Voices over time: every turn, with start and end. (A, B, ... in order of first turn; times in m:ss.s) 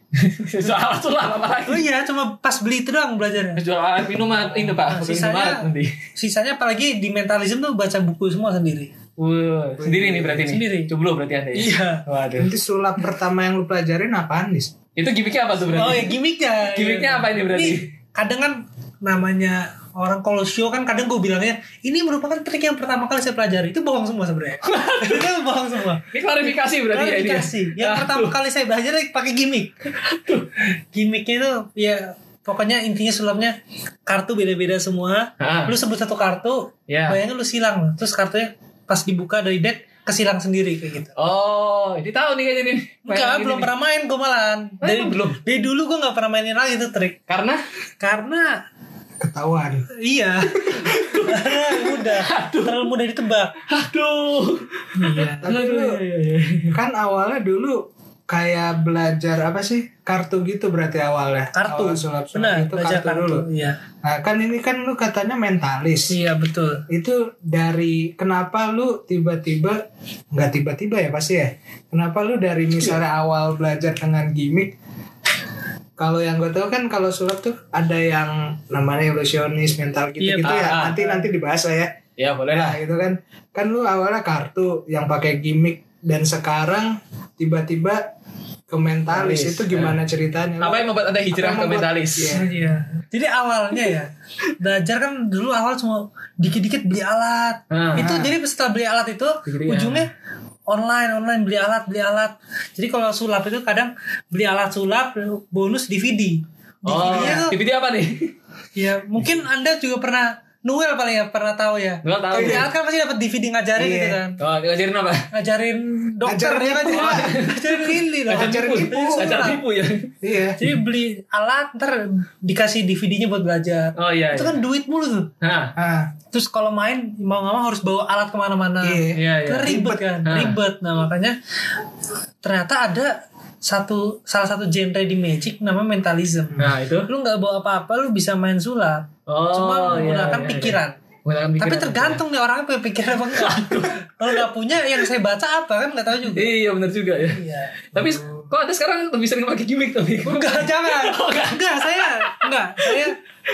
0:00.1-0:01.8 A
0:01.7-0:03.6 B
0:03.6-0:05.9 A
0:04.8-0:08.9 B
0:09.2-0:12.5 A
0:09.8-0:10.6 C
0:10.4-0:10.9 B
0:11.5-0:12.0 B
0:12.4-0:14.7 C
0:15.0-0:17.8 A
0:15.7-0:29.7 B
0:24.6-0:25.3 A
0:26.1-0:28.3 A
0:30.0-0:30.5 A
0:30.9-0:41.1 B
0:35.4-0:35.7 A
0:36.9-0:37.2 A
0:41.2-0:43.7 A
0:43.0-0:47.2 B
0:44.8-0:45.4 A
0:47.3-0:47.6 A
0:48.0-0:48.6 B
0:49.2-0:49.8 C
0:49.9-0:53.6 B
0:50.8-0:52.9 A
0:53.7-0:56.7 A
0:55.0-0:55.5 B
0:55.4-0:56.0 C
0:56.7-1:03.4 C
1:01.5-1:03.8 B
1:04.0-1:06.1 C
1:06.1-1:06.9 B
1:06.9-1:09.8 C
1:10.3-1:14.7 C
1:16.0-1:21.9 C
1:20.2-1:21.2 B
1:20.4-1:21.0 A
1:22.2-1:22.8 A
1:22.5-1:28.0 C
1:28.7-1:32.5 C
1:29.1-1:30.0 A
1:30.6-1:32.3 A
1:32.3-1:40.1 B
1:37.7-1:38.1 A
1:37.9-1:38.3 C
1:39.4-1:40.0 A
1:40.7-1:47.6 B
1:46.8-1:48.3 A
1:46.9-1:47.4 C
1:48.8-1:54.4 B
1:52.0-1:52.7 A
1:52.3-1:52.7 C
1:53.8-1:54.2 C
1:54.4-1:55.3 A
1:55.3-1:59.6 B
1:56.2-1:57.4 C
1:56.9-2:00.1 A
1:58.3-1:59.5 C
2:00.2-2:00.6 C
2:00.6-2:05.3 B
2:04.0-2:04.6 A
2:05.4-2:05.7 A
2:05.8-2:06.1 C
2:06.3-2:11.3 B
2:08.8-2:10.0 C
2:09.1-2:10.6 A
2:12.4-2:21.0 B
2:16.6-2:17.1 A
2:19.3-2:22.2 A
2:21.6-2:26.5 B
2:23.2-2:24.4 A
2:26.2-2:27.4 A
2:27.3-2:27.8 B
2:27.9-2:33.1 A
2:27.9-2:28.5 C
2:30.2-2:33.2 B